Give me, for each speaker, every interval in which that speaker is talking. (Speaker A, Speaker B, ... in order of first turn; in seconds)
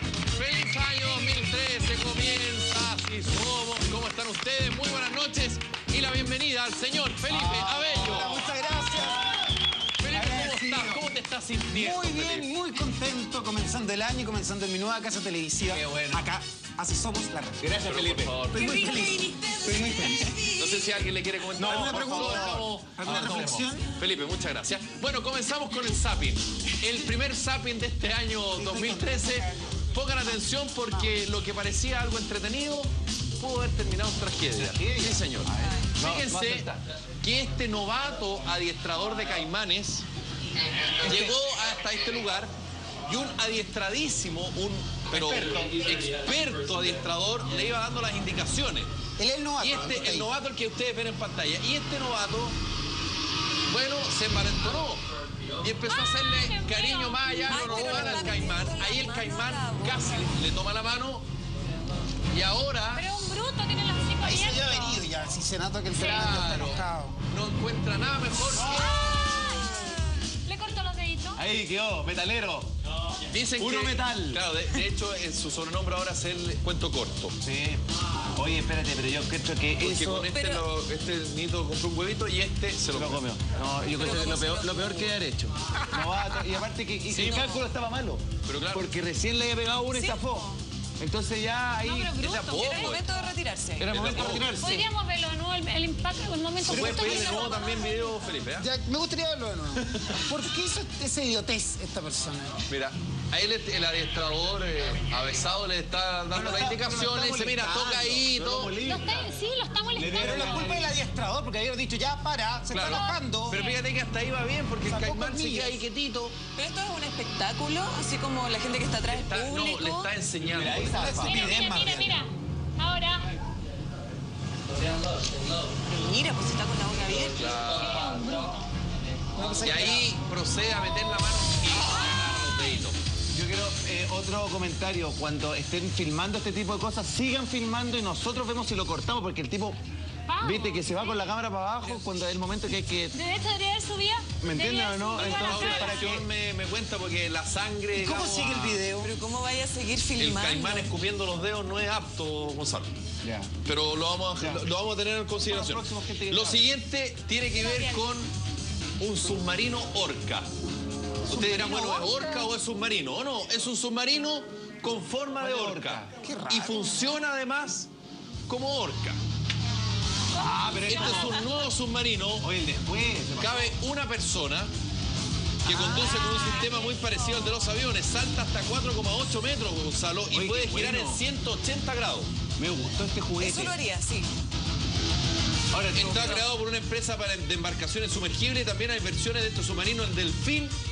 Speaker A: 0.3-8.4, 10.0-12.5, 15.7-16.1, 17.8-19.1, 20.4-40.1, 41.0-42.5, 43.1-48.9, 49.6-52.6, 53.7-55.1, 55.6-61.3, 62.3-63.0, 65.9-69.1, 73.3-77.4, 79.8-83.2, 84.0-84.4, 87.1-87.6, 88.5-88.9, 92.2-93.1, 93.8-94.5, 96.6-98.7, 102.7-108.7, 112.7-116.3, 119.0-121.6, 127.2-128.4, 129.6-133.0, 145.2-148.8, 150.2-152.9, 153.7-158.3, 159.0-160.5, 161.2-167.9, 168.5-169.2, 170.9-172.5, 173.4-174.7, 175.7-182.3, 185.9-190.8
Speaker B: 7.3-9.3, 10.1-11.0, 11.7-17.8, 18.5-20.5, 21.6-23.9, 28.5-30.3, 49.2-50.3, 64.2-67.2, 98.6-102.6, 110.2-113.6, 114.9-115.8, 120.9-122.2, 129.3-130.1, 148.0-149.1, 161.3-162.3, 166.2-167.2
Speaker C: 15.7-16.3, 17.6-18.5, 21.7-23.7, 34.6-36.8, 41.0-41.4, 45.1-45.9, 68.8-69.1, 71.4-72.7, 73.6-74.6, 77.4-77.8, 78.3-80.3, 82.9-92.2, 93.8-94.9, 96.8-97.3, 106.3-109.3, 109.9-110.9, 120.4-121.7, 133.3-139.8, 140.4-143.2, 144.4-146.3, 153.2-153.5, 154.4-154.7, 155.4-156.7, 165.4-166.2, 170.4-171.4, 172.4-173.8, 175.7-176.1, 180.3-181.2, 182.6-183.8, 185.7-186.4
Speaker D: 18.6-20.2, 35.6-35.9, 57.5-60.3, 80.3-80.7, 83.9-85.0, 87.2-87.6, 89.9-90.6, 92.5-94.5, 116.6-120.1, 125.8-127.4, 149.0-150.9, 183.4-184.3
Speaker E: 55.9-58.1, 63.0-65.0, 68.7-71.4, 91.8-92.9, 94.6-98.2, 108.8-110.7, 112.8-113.8, 121.2-123.3, 127.7-128.7, 140.3-141.2, 143.1-146.2, 157.6-158.0, 176.0-177.4